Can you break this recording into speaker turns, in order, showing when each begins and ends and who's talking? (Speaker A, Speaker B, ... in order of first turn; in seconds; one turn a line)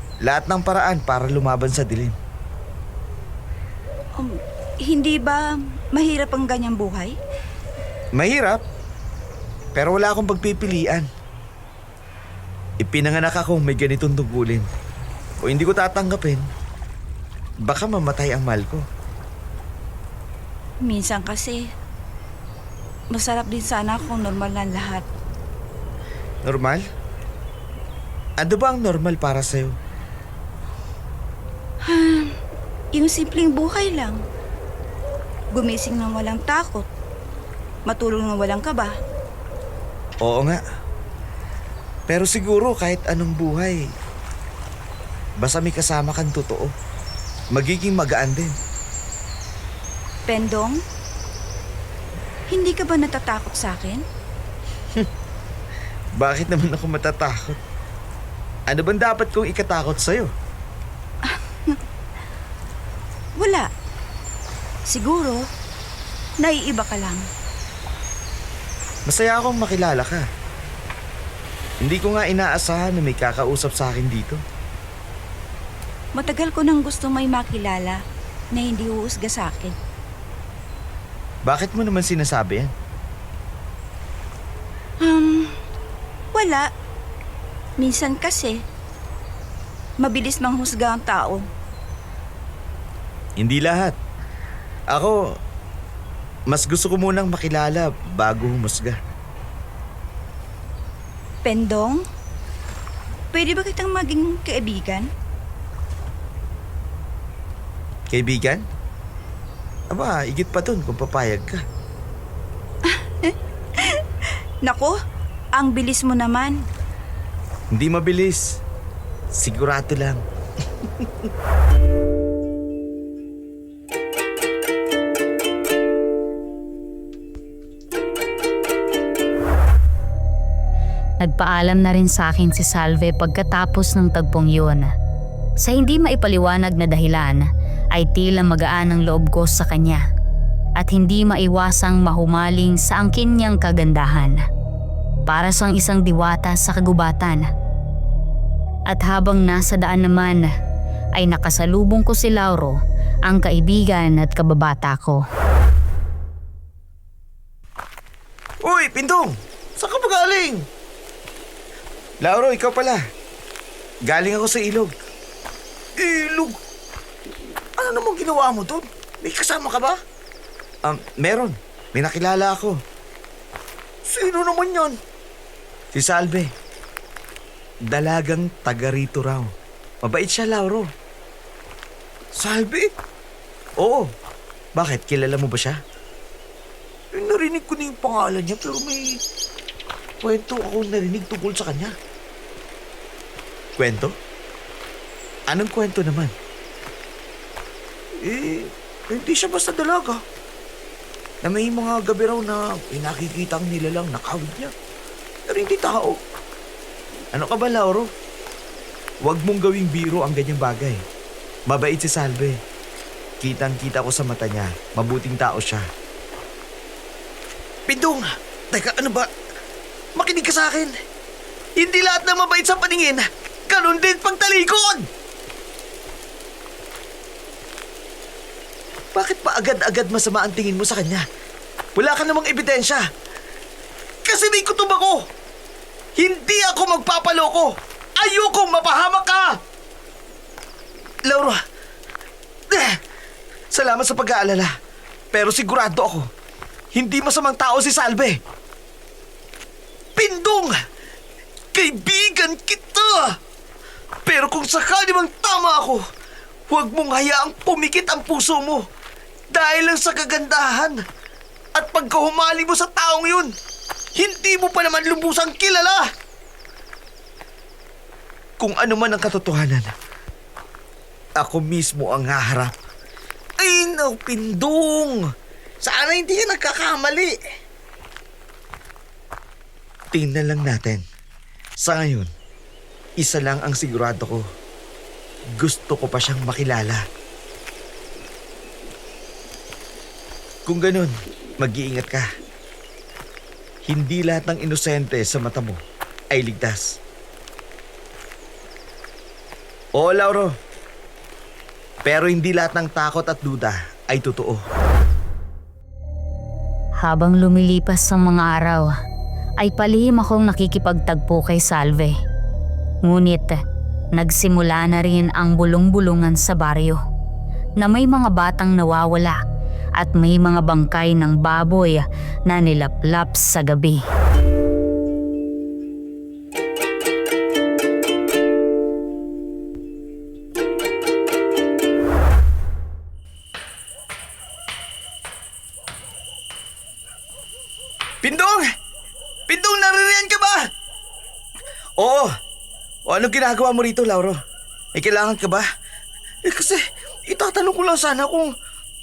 Speaker A: 0.2-2.1
Speaker B: 4.1-7.2
Speaker A: 8.1-8.6
Speaker A: 9.7-11.1
Speaker A: 12.8-14.7
Speaker A: 15.4-16.4
Speaker A: 17.6-18.8
Speaker B: 20.8-21.7
Speaker B: 23.1-25.0
Speaker A: 26.4-26.8
Speaker A: 28.4-29.8
Speaker B: 31.8-32.3
Speaker B: 32.9-34.2
Speaker B: 35.5-36.9
Speaker B: 37.9-38.9
Speaker A: 40.2-40.6
Speaker A: 42.1-43.8
Speaker A: 45.4-46.7
Speaker A: 47.5-48.5
Speaker B: 50.3-50.8
Speaker B: 52.5-54.0
Speaker A: 56.2-57.6
Speaker A: 58.7-60.3
Speaker B: 61.2-61.8
Speaker B: 63.4-63.7
Speaker B: 64.9-65.4
Speaker B: 66.4-67.3
Speaker A: 69.1-70.2
Speaker A: 71.8-74.4
Speaker B: 76.1-78.0
Speaker B: 78.5-79.8
Speaker A: 81.5-82.7
Speaker B: 85.0-85.5
Speaker B: 86.3-86.7
Speaker B: 87.8-88.6
Speaker B: 90.0-91.5
Speaker A: 93.4-94.0
Speaker A: 94.9-95.2
Speaker A: 96.5-99.0
Speaker B: 101.4-102.0
Speaker B: 103.3-105.1
Speaker A: 108.1-108.6
Speaker A: 109.9-111.6
Speaker B: 112.8-114.9
Speaker B: 115.5-116.6
Speaker A: 117.7-118.6
Speaker A: 119.3-120.2
Speaker A: 120.8-121.3
Speaker C: 131.2-134.9
Speaker C: 135.6-140.0
Speaker C: 140.8-144.4
Speaker C: 145.3-147.5
Speaker C: 148.9-150.5
Speaker C: 151.2-155.2
Speaker A: 158.6-160.7
Speaker A: 162.2-163.0
Speaker A: 164.1-164.9
Speaker A: 166.0-166.6
Speaker A: 167.8-170.0
Speaker A: 170.8-172.8
Speaker A: 174.0-175.0
Speaker A: 175.9-176.5
Speaker A: 177.9-179.5
Speaker A: 180.0-180.9
Speaker A: 182.3-182.9
Speaker A: 183.8-184.1
Speaker A: 184.8-185.8
Speaker A: 187.1-189.2
Speaker A: 190.2-191.9
Speaker A: 193.8-194.2
Speaker A: 195.5-196.3
Speaker A: 198.2-200.2
Speaker A: 201.4-204.7
Speaker A: 205.5-206.2
Speaker A: 207.3-208.1
Speaker A: 209.2-211.0
Speaker A: 211.7-212.6
Speaker A: 213.4-215.9
Speaker A: 217.9-219.3
Speaker A: 220.1-220.9
Speaker A: 221.8-225.1
Speaker A: 229.1-231.2
Speaker A: 231.9-233.0
Speaker A: 234.2-235.2
Speaker A: 236.2-239.6
Speaker A: 241.2-241.6
Speaker A: 242.7-243.0
Speaker A: 243.7-244.7
Speaker A: 245.3-246.3
Speaker A: 246.9-248.4
Speaker A: 250.2-250.8
Speaker A: 251.7-253.4
Speaker A: 254.2-256.0
Speaker A: 256.7-258.8
Speaker A: 259.5-261.0
Speaker A: 261.7-263.5
Speaker A: 264.1-266.1
Speaker A: 268.6-269.9
Speaker A: 271.4-272.7
Speaker A: 273.6-275.2
Speaker A: 275.8-277.4
Speaker A: 280.1-281.0
Speaker A: 281.8-282.3
Speaker A: 283.2-284.4
Speaker A: 285.6-287.0
Speaker A: 290.6-292.3
Speaker A: 293.8-295.8
Speaker A: 296.3-297.0
Speaker A: 300.0-300.5
Speaker A: 302.0-304.6
Speaker C: 307.0-308.9
Speaker C: 309.6-312.1
Speaker C: 313.0-313.6
Speaker C: 314.1-317.0
Speaker C: 317.8-319.4
Speaker C: 320.0-324.0
Speaker A: 338.2-338.7
Speaker A: 339.5-340.6
Speaker A: 342.0-342.3
Speaker A: 343.1-344.4
Speaker A: 344.9-345.6
Speaker A: 346.4-348.5